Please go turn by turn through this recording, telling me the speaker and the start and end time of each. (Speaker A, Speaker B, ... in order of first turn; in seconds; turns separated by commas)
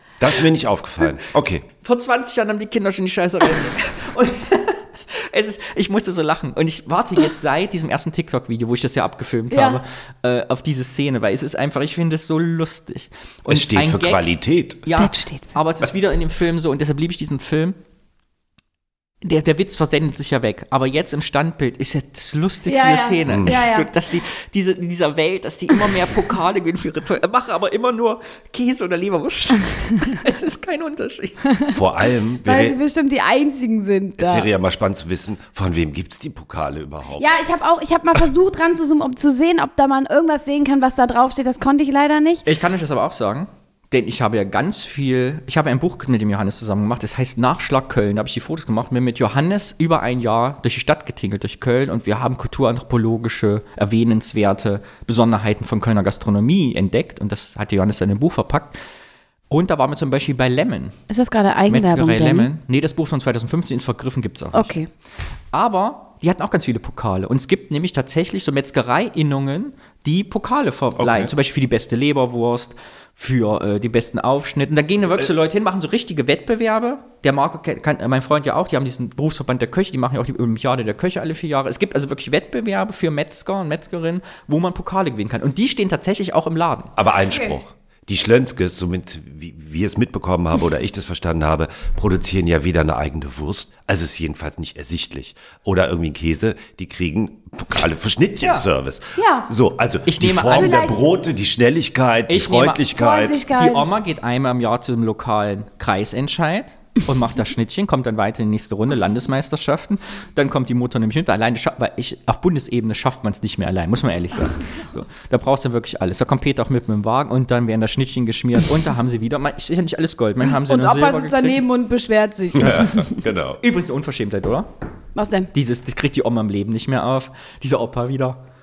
Speaker A: 0.2-1.7, Speaker B: 1.8-14.2, Speaker C: 9.5-9.8, Speaker A: 13.5-14.8, Speaker B: 14.8-17.8, Speaker C: 15.0-15.6, Speaker B: 19.2-31.5, Speaker C: 22.7-23.9, Speaker A: 23.3-23.6, Speaker A: 31.7-32.8, Speaker C: 32.4-34.5, Speaker A: 34.2-37.3, Speaker C: 37.2-42.5, Speaker B: 42.5-58.8, Speaker B: 59.5-61.0, Speaker C: 61.1-62.5, Speaker B: 61.7-64.7, Speaker C: 64.5-64.9, Speaker B: 65.5-86.9, Speaker A: 71.0-71.3, Speaker A: 87.0-103.4, Speaker C: 87.3-87.6, Speaker C: 99.2-99.5, Speaker B: 100.1-100.8, Speaker C: 100.5-101.0, Speaker B: 102.3-102.9, Speaker C: 102.9-103.9, Speaker B: 103.5-121.6, Speaker C: 120.4-123.2, Speaker A: 122.6-123.6, Speaker B: 123.6-124.7, Speaker C: 125.2-125.5, Speaker B: 125.5-128.4